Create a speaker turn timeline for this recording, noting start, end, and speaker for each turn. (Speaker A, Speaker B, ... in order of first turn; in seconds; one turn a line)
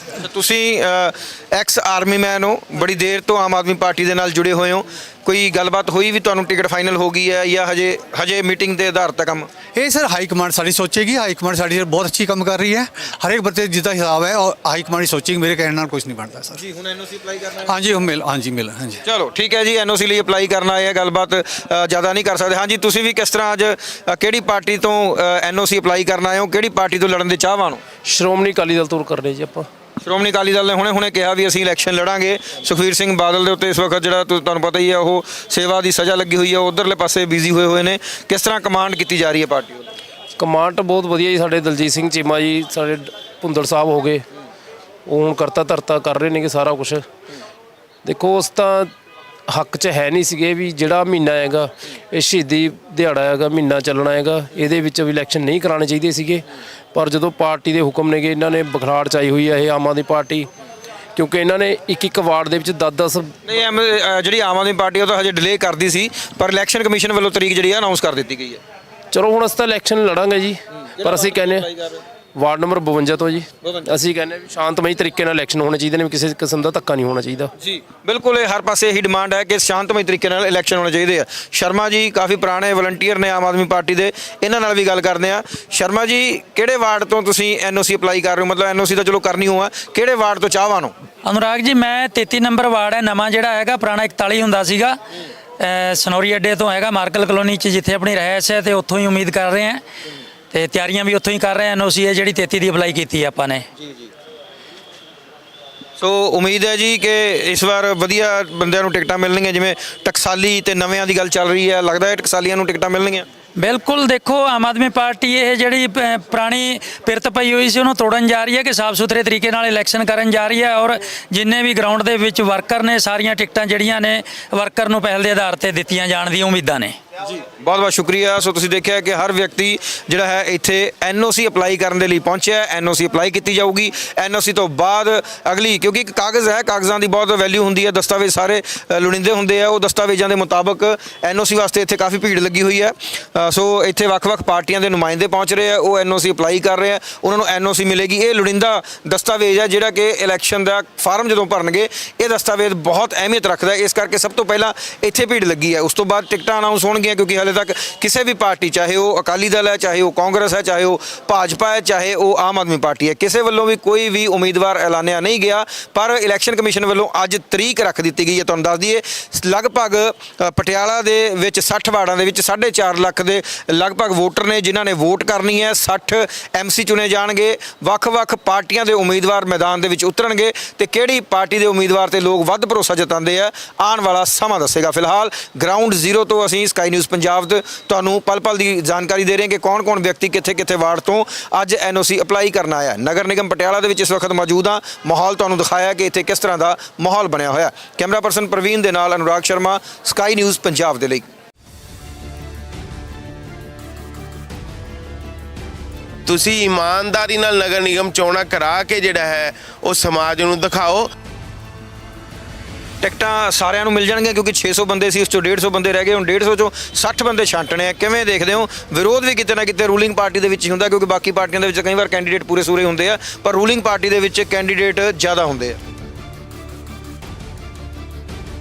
Speaker A: 0.2-9.5
Speaker B: 9.8-16.6
Speaker A: 16.6-17.7
Speaker B: 17.7-19.0
Speaker A: 19.1-27.8
Speaker C: 28.0-29.7
Speaker A: 30.0-39.9
Speaker C: 40.4-44.2
Speaker C: 45.1-47.1
Speaker C: 48.0-48.9
Speaker C: 49.5-60.5
Speaker C: 61.1-63.3
Speaker A: 63.5-68.6
Speaker C: 69.1-71.7
Speaker A: 71.0-72.0
Speaker C: 72.3-77.5
Speaker A: 77.6-90.9
Speaker D: 91.2-95.0
Speaker D: 95.6-99.8
Speaker D: 100.5-103.7
Speaker A: 103.8-104.1
Speaker A: 106.0-113.3
Speaker D: 113.6-127.0
Speaker A: 127.3-201.3
Speaker E: 206.3-211.1
Speaker A: 213.0-225.8